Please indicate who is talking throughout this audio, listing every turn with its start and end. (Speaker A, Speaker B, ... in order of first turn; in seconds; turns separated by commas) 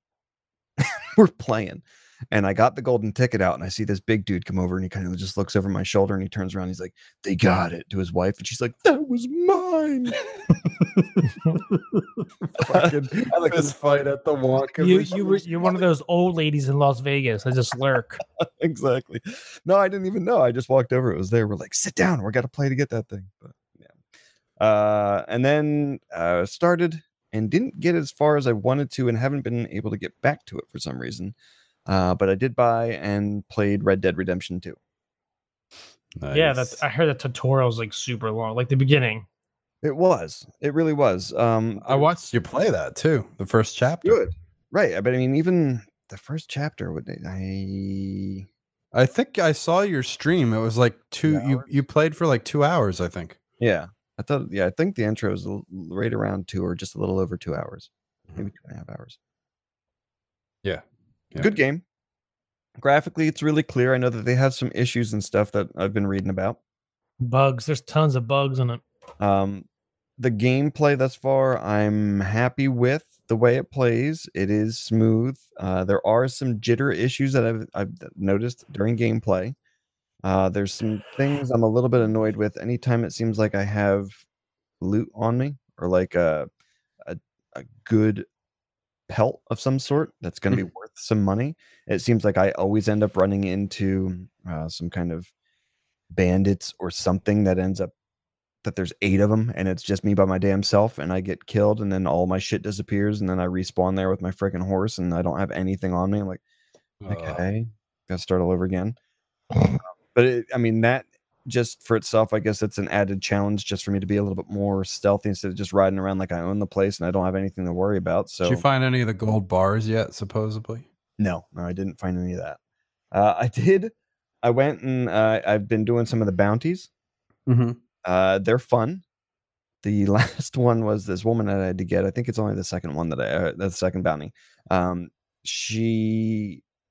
Speaker A: 0.8-10.2, Speaker B: 10.8-15.4, Speaker A: 12.6-14.0, Speaker C: 14.8-18.2, Speaker A: 15.1-15.8, Speaker A: 18.4-23.9, Speaker A: 24.6-31.4, Speaker A: 31.9-34.8, Speaker B: 36.2-36.8, Speaker C: 36.3-39.3, Speaker A: 39.8-42.1, Speaker B: 41.8-44.2, Speaker A: 44.0-48.5, Speaker B: 48.9-53.4, Speaker A: 51.2-51.7, Speaker A: 53.6-59.2, Speaker B: 60.6-61.5, Speaker A: 61.4-61.8, Speaker A: 62.8-66.6, Speaker C: 67.2-68.8, Speaker A: 69.2-69.7, Speaker A: 70.2-79.6, Speaker A: 80.2-84.2, Speaker A: 84.8-86.5, Speaker A: 87.0-88.3, Speaker A: 89.1-95.3, Speaker A: 96.1-97.9, Speaker A: 98.6-106.4, Speaker B: 107.0-107.4, Speaker A: 107.1-109.0, Speaker A: 109.6-118.7, Speaker B: 118.4-120.8, Speaker A: 121.2-122.6, Speaker A: 123.1-126.9, Speaker B: 127.5-127.8, Speaker A: 128.0-129.0, Speaker A: 129.8-136.6